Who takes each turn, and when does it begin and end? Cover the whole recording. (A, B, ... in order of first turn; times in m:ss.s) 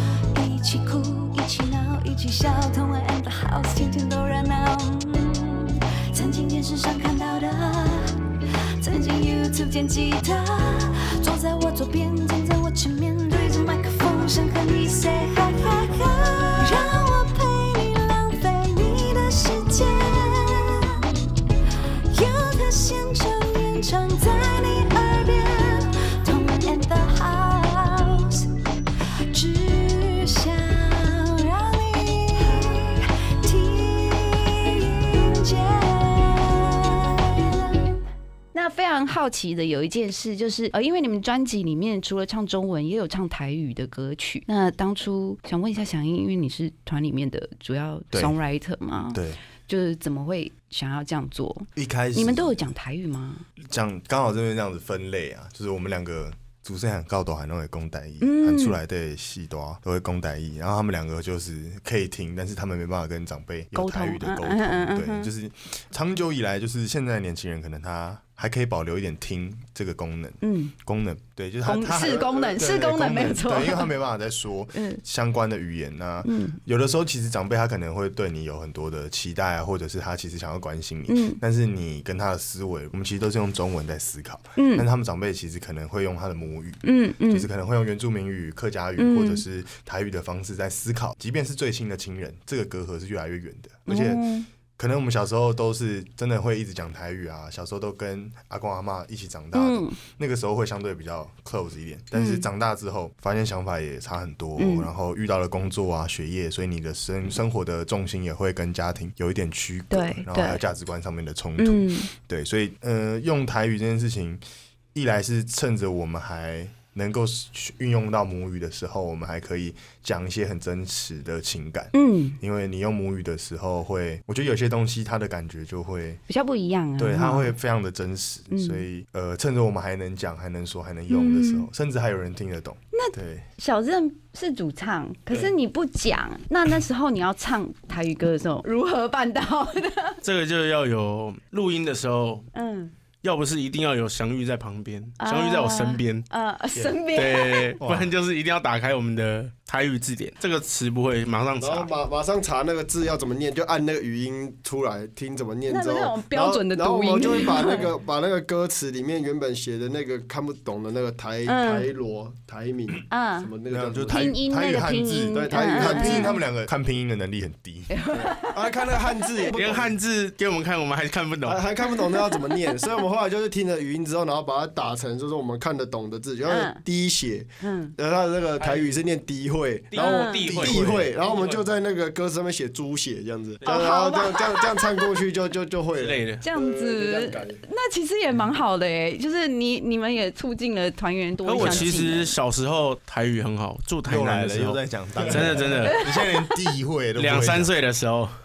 0:00.3-0:08.2 A
0:08.8-0:21.0 A
0:22.1-0:28.5 A
0:29.3-0:37.8 A
0:38.5-0:53.4 B
0:48.1-0:48.4 C
0:49.1-0:49.4 C
0:51.8-0:52.7 C
0:53.7-1:54.4 C
0:58.2-0:58.8 B
1:03.7-1:05.3 B
1:10.4-1:10.7 B
1:11.6-1:13.9 B
1:14.7-1:15.0 B
1:16.2-1:16.6 B
1:21.1-1:21.4 B
1:24.6-1:24.9 B
1:26.8-1:27.5 B
1:29.0-1:29.4 B
1:33.9-1:34.5 B
1:39.5-1:40.0 B
1:42.1-1:42.5 B
1:44.6-1:44.9 B
1:49.9-1:50.6 B
1:51.6-1:52.1 B
1:54.9-2:06.2 C
2:01.9-2:02.4 B
2:06.3-2:07.6 B
2:07.0-2:13.4 C
2:08.5-2:08.8 B
2:11.1-2:11.7 B
2:12.9-2:20.2 B
2:20.2-2:22.5 D
2:22.5-2:22.9 B
2:23.2-2:26.2 D
2:25.2-2:27.8 B
2:27.2-2:31.9 D
2:27.8-2:28.1 C
2:31.6-2:44.2 E
2:35.7-2:37.9 B
2:41.4-2:41.9 B
2:43.1-2:43.5 B
2:43.7-2:47.9 C
2:44.1-2:46.4 B
2:45.3-2:46.4 E
2:47.9-2:48.6 B
2:48.1-2:49.9 E
2:49.5-2:51.7 D
2:51.4-3:07.6 E
2:56.5-2:56.8 B
2:57.6-2:57.9 B
2:58.6-2:59.0 D
2:59.9-3:01.6 D
3:00.0-3:00.5 B
3:00.4-3:01.1 C
3:03.6-3:04.9 B
3:06.0-3:06.4 D
3:06.4-3:12.3 B
3:11.4-3:16.0 D
3:14.0-3:17.7 C
3:17.2-3:18.3 D